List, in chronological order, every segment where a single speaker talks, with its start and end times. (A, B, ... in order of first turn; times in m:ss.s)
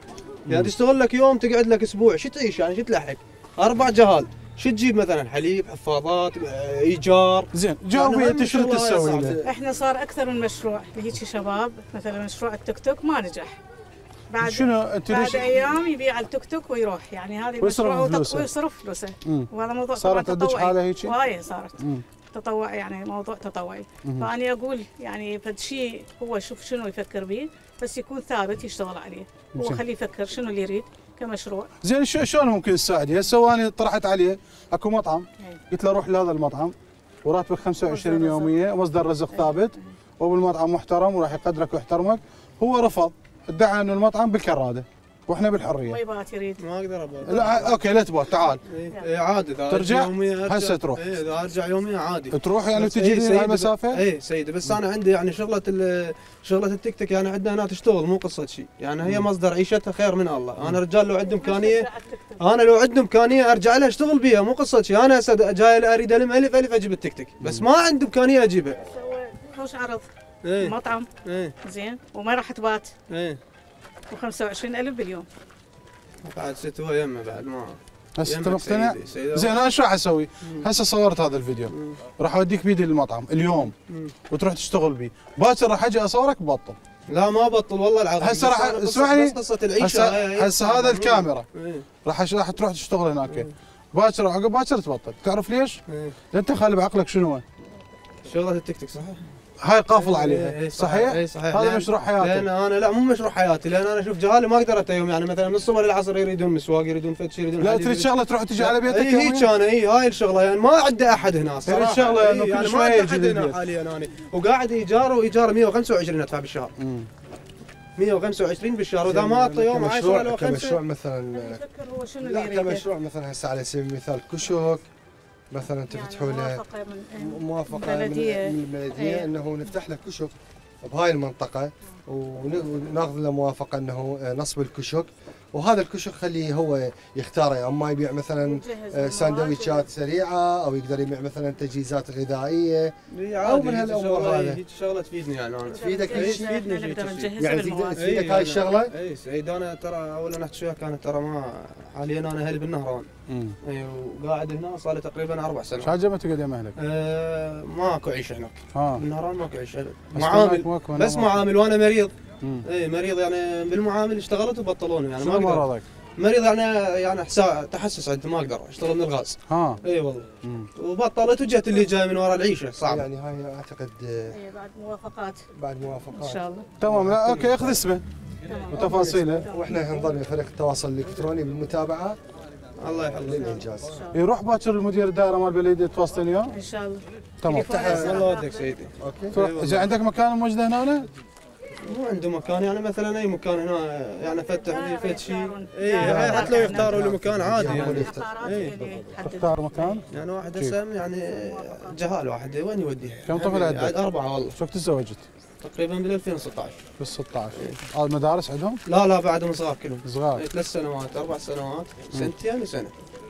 0:00.4-0:00.7 A
0:00.5-0:09.4 B
0:07.5-0:09.4 A
0:09.4-0:13.6 C
0:14.3-0:21.8 C
0:14.4-0:15.8 A
0:17.6-0:18.5 A
0:19.2-0:21.1 A
0:21.8-0:22.0 A
0:22.3-0:31.7 C
0:24.0-0:24.3 A
0:29.5-0:29.8 A
0:31.8-0:46.0 A
0:37.8-0:38.5 C
0:39.3-0:39.8 C
0:45.8-0:46.6 C
0:46.6-0:47.7 B
0:47.2-0:48.6 A
0:47.3-0:47.8 C
0:48.7-1:08.8 B
0:49.7-0:51.1 A
0:52.3-0:54.0 A
1:01.2-1:02.4 C
1:08.8-1:11.1 C
1:10.4-1:11.5 B
1:11.6-1:12.9 C
1:13.1-1:13.4 B
1:14.1-1:15.3 C
1:16.2-1:19.6 B
1:18.2-1:23.7 A
1:21.7-1:22.0 B
1:23.5-1:24.1 B
1:24.3-1:26.8 A
1:27.1-1:31.8 B
1:28.2-1:31.4 A
1:32.0-1:35.8 A
1:33.2-1:33.5 B
1:35.9-1:36.2 B
1:36.3-1:37.4 A
1:38.2-1:39.2 B
1:39.6-1:42.5 A
1:39.9-1:56.7 B
1:47.6-1:49.5 A
1:51.6-1:53.6 A
1:56.8-1:57.1 A
1:58.0-2:00.8 B
1:59.0-2:01.6 D
2:01.3-2:02.8 C
2:02.2-2:04.8 D
2:05.5-2:06.6 D
2:05.9-2:09.3 C
2:07.2-2:24.6 D
2:18.4-2:19.9 C
2:23.1-2:27.3 B
2:25.7-2:28.1 C
2:25.7-2:26.6 D
2:27.4-2:28.9 D
2:28.0-2:33.1 B
2:33.3-2:33.6 A
2:33.6-2:35.9 B
2:35.8-2:36.7 A
2:36.8-2:42.1 B
2:38.7-2:39.0 A
2:40.1-2:41.4 A
2:42.7-2:53.0 B
2:45.2-2:45.8 A
2:49.5-2:49.8 A
2:50.4-2:50.7 A
2:52.8-2:54.4 D
2:54.3-2:55.4 C
2:55.5-2:57.9 D
2:56.1-2:56.6 C
2:56.8-2:58.0 A
2:58.4-3:00.0 C
2:58.7-2:59.4 A
2:58.9-3:02.2 D
3:02.8-3:03.6 B
3:03.2-3:04.0 D
3:03.5-3:04.2 C
3:04.1-3:06.6 A
3:06.5-3:08.7 C
3:07.4-3:07.8 A
3:07.6-3:08.3 D
3:07.8-3:09.9 B
3:09.0-3:09.4 D
3:09.3-3:11.1 A
3:11.8-3:18.8 B
3:14.4-3:17.0 C
3:16.0-3:19.0 D
3:17.6-3:20.0 C
3:19.2-3:20.0 A
3:20.1-3:24.6 B
3:21.3-3:21.9 C
3:23.3-3:25.3 A
3:25.6-3:26.8 B
3:27.0-3:28.8 A
3:28.9-3:32.9 B
3:30.0-3:30.4 A